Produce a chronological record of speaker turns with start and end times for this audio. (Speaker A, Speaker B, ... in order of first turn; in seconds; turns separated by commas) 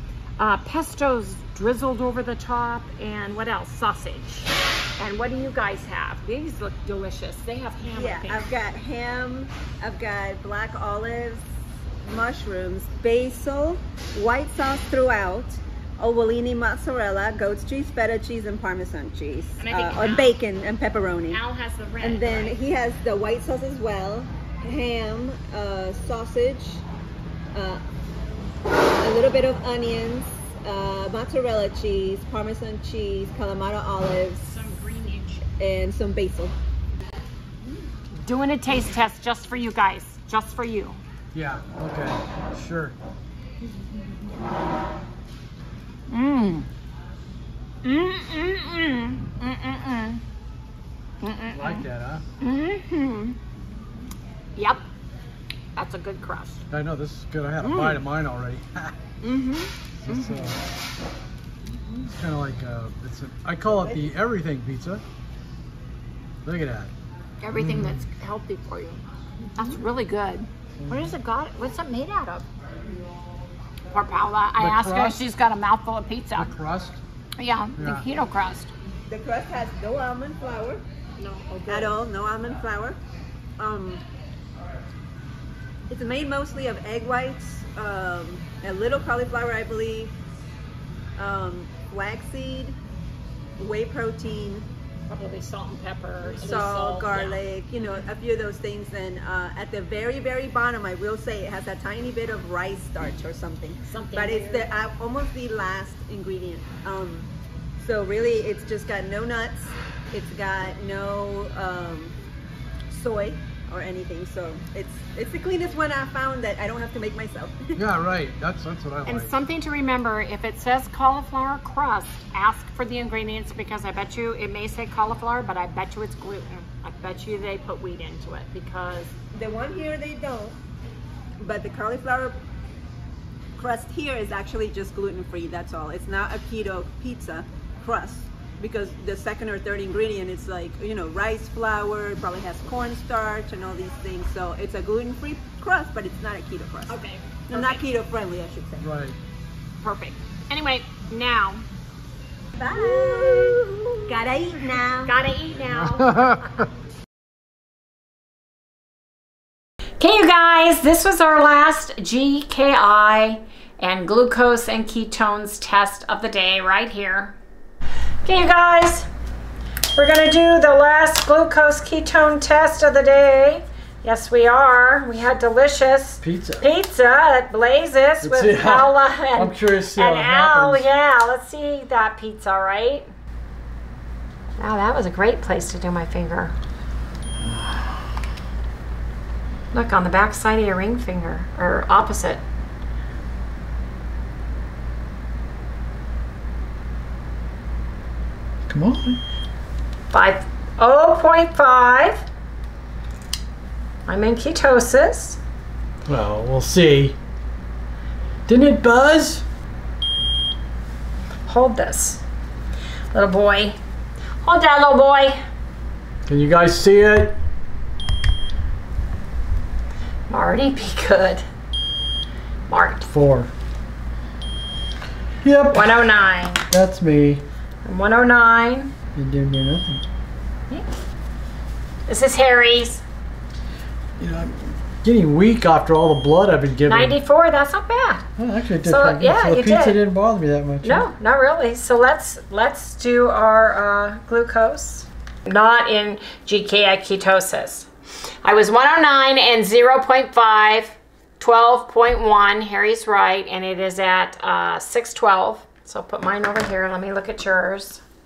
Speaker A: 0.4-8.5, Speaker B: 7.9-11.4, Speaker B: 12.0-21.4, Speaker A: 19.6-20.4, Speaker A: 21.3-22.6, Speaker B: 22.0-26.8, Speaker B: 27.5-27.8, Speaker B: 29.0-34.4, Speaker A: 34.4-35.4, Speaker B: 35.6-36.5, Speaker A: 38.2-41.0, Speaker C: 41.3-42.9, Speaker A: 46.1-46.7, Speaker A: 47.8-50.2, Speaker A: 51.2-51.8, Speaker C: 51.5-52.2, Speaker A: 52.4-53.4, Speaker A: 54.6-54.8, Speaker A: 55.8-56.6, Speaker C: 56.7-59.0, Speaker A: 57.6-58.0, Speaker A: 59.2-60.4, Speaker C: 60.0-60.6, Speaker C: 62.0-65.0, Speaker C: 66.4-66.9, Speaker A: 67.4-69.0, Speaker C: 67.5-68.0, Speaker A: 69.5-72.5, Speaker C: 70.8-71.1, Speaker A: 73.9-76.5, Speaker C: 74.6-75.2, Speaker C: 76.3-77.0, Speaker A: 77.4-78.7, Speaker C: 77.8-78.0, Speaker B: 79.1-80.8, Speaker A: 81.2-81.9, Speaker B: 81.7-83.0, Speaker B: 83.6-84.0, Speaker B: 85.9-90.1, Speaker B: 91.2-92.8, Speaker B: 93.6-94.7, Speaker A: 95.1-97.4, Speaker B: 96.4-107.3, Speaker A: 103.9-104.7, Speaker B: 107.8-112.2, Speaker B: 112.9-117.8, Speaker C: 117.7-119.3, Speaker A: 119.0-129.1, Speaker B: 129.3-130.6, Speaker B: 131.4-132.3, Speaker B: 133.6-147.0, Speaker A: 146.9-147.8, Speaker B: 147.5-148.9, Speaker C: 148.8-149.2, Speaker A: 149.8-151.7, Speaker B: 152.6-155.1, Speaker A: 152.7-154.1, Speaker A: 155.1-156.3, Speaker C: 155.7-156.7, Speaker A: 160.0-167.3, Speaker A: 168.2-169.1, Speaker A: 169.9-183.1, Speaker C: 176.2-176.7, Speaker C: 178.2-180.8, Speaker A: 184.6-186.5, Speaker C: 187.4-188.0, Speaker A: 189.7-192.4, Speaker C: 198.7-199.2, Speaker A: 200.1-202.2, Speaker A: 204.1-205.4, Speaker C: 206.1-207.2, Speaker C: 208.5-209.4, Speaker A: 211.5-212.2, Speaker A: 213.1-213.8, Speaker A: 214.4-215.4, Speaker C: 216.3-217.4, Speaker A: 220.3-221.4, Speaker A: 222.7-223.1, Speaker C: 223.1-223.5, Speaker C: 225.4-226.1, Speaker A: 225.7-226.7, Speaker C: 226.7-227.4, Speaker A: 227.8-228.9, Speaker C: 229.1-230.0, Speaker A: 232.1-233.0, Speaker C: 234.2-237.2, Speaker A: 236.9-238.2, Speaker C: 238.4-241.1, Speaker A: 238.8-240.0, Speaker A: 240.8-247.9, Speaker A: 248.4-258.0